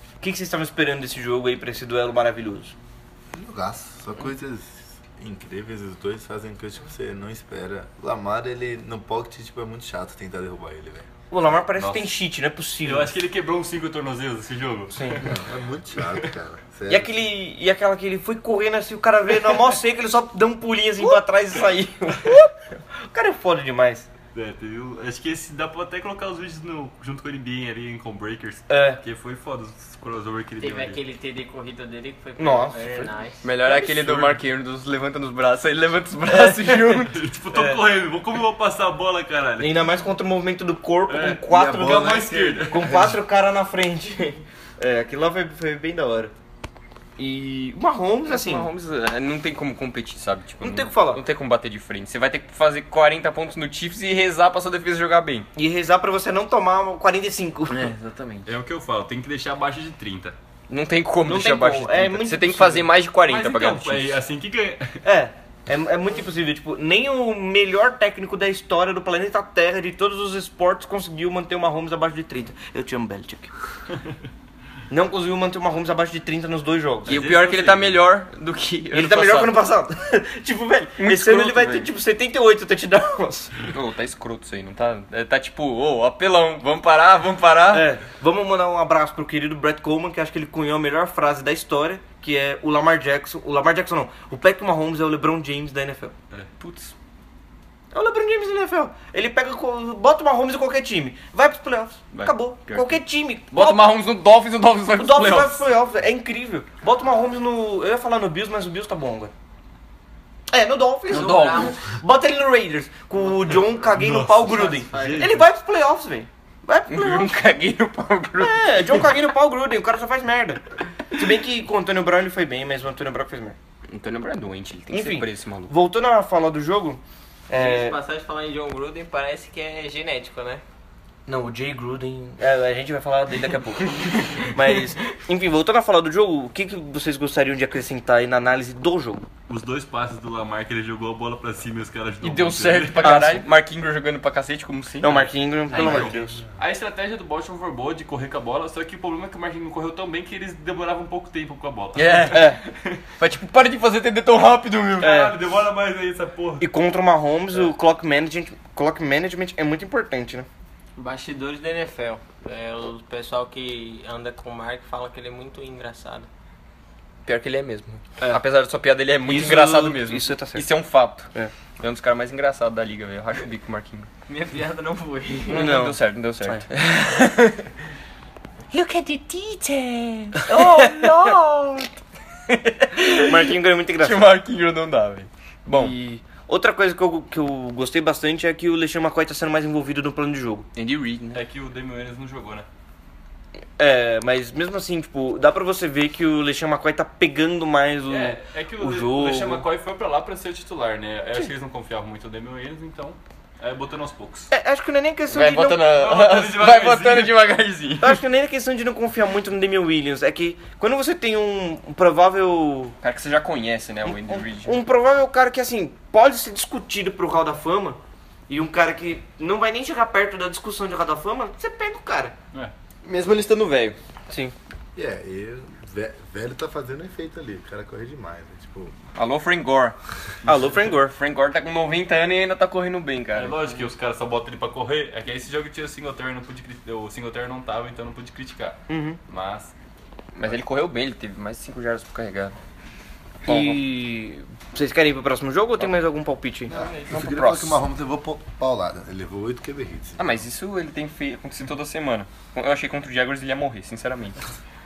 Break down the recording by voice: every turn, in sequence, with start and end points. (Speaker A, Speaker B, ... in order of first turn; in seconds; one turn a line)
Speaker A: 0.2-2.8
Speaker B: 3.3-11.1
Speaker A: 11.3-13.2
Speaker C: 11.8-12.1
Speaker C: 12.8-15.3
Speaker A: 14.9-15.2
Speaker B: 15.2-17.1
Speaker A: 16.9-24.1
Speaker C: 24.3-31.0
Speaker A: 28.7-29.0
Speaker D: 30.6-33.5
Speaker A: 32.4-33.1
Speaker E: 33.4-37.2
Speaker C: 33.7-34.4
Speaker A: 36.3-37.8
Speaker C: 37.1-39.8
Speaker A: 39.6-46.3
Speaker C: 41.1-43.0
Speaker B: 41.5-42.2
Speaker B: 42.7-43.1
Speaker A: 47.2-48.7
Speaker E: 48.3-55.5
Speaker A: 50.6-51.2
Speaker A: 55.6-57.9
Speaker E: 57.7-58.5
Speaker C: 58.5-60.4
Speaker E: 60.7-64.2
Speaker A: 61.2-62.9
Speaker C: 63.2-65.0
Speaker A: 65.0-73.5
Speaker A: 74.9-77.2
Speaker E: 77.1-79.6
Speaker C: 77.1-78.0
Speaker A: 78.9-83.6
Speaker E: 81.0-81.9
Speaker E: 83.7-87.9
Speaker A: 87.7-96.1
Speaker E: 96.6-96.9
Speaker A: 97.9-103.9
Speaker E: 102.1-103.0
Speaker E: 103.5-105.6
Speaker A: 105.0-109.3
Speaker A: 110.5-117.4
Speaker D: 111.1-111.8
Speaker E: 111.1-111.7
Speaker C: 113.6-115.5
Speaker D: 114.5-115.2
Speaker E: 116.9-118.9
Speaker A: 118.4-123.6
Speaker E: 123.9-125.7
Speaker A: 124.9-128.0
Speaker D: 127.5-130.6
Speaker A: 131.3-139.3
Speaker C: 139.5-143.2
Speaker E: 142.2-146.1
Speaker A: 143.0-143.5
Speaker A: 145.0-146.4
Speaker C: 145.7-153.0
Speaker E: 151.9-152.6
Speaker A: 152.3-152.6
Speaker E: 153.2-155.2
Speaker C: 155.0-156.7
Speaker A: 155.0-155.3
Speaker A: 156.6-160.5
Speaker D: 161.0-166.3
Speaker E: 167.2-174.1
Speaker A: 169.3-170.7
Speaker D: 174.3-175.7
Speaker E: 175.5-177.7
Speaker A: 175.5-176.7
Speaker E: 178.7-181.9
Speaker A: 180.4-181.8
Speaker E: 182.5-186.0
Speaker A: 183.0-184.4
Speaker A: 185.7-190.7
Speaker E: 190.8-191.4
Speaker C: 191.3-192.7
Speaker A: 193.8-199.7
Speaker C: 198.1-204.5
Speaker A: 204.5-205.9
Speaker E: 205.3-208.2
Speaker C: 205.9-207.5
Speaker A: 208.0-213.0
Speaker E: 213.0-214.8
Speaker A: 214.0-222.4
Speaker E: 223.0-224.0
Speaker A: 224.3-224.5
Speaker B: 224.9-228.9
Speaker E: 229.2-230.0
Speaker A: 230.4-231.1
Speaker E: 230.9-233.6
Speaker C: 233.3-239.7
Speaker A: 238.9-239.2
Speaker E: 240.3-242.6
Speaker E: 243.5-243.8
Speaker A: 243.5-246.7
Speaker B: 246.7-250.5
Speaker E: 247.0-247.8
Speaker E: 250.2-254.4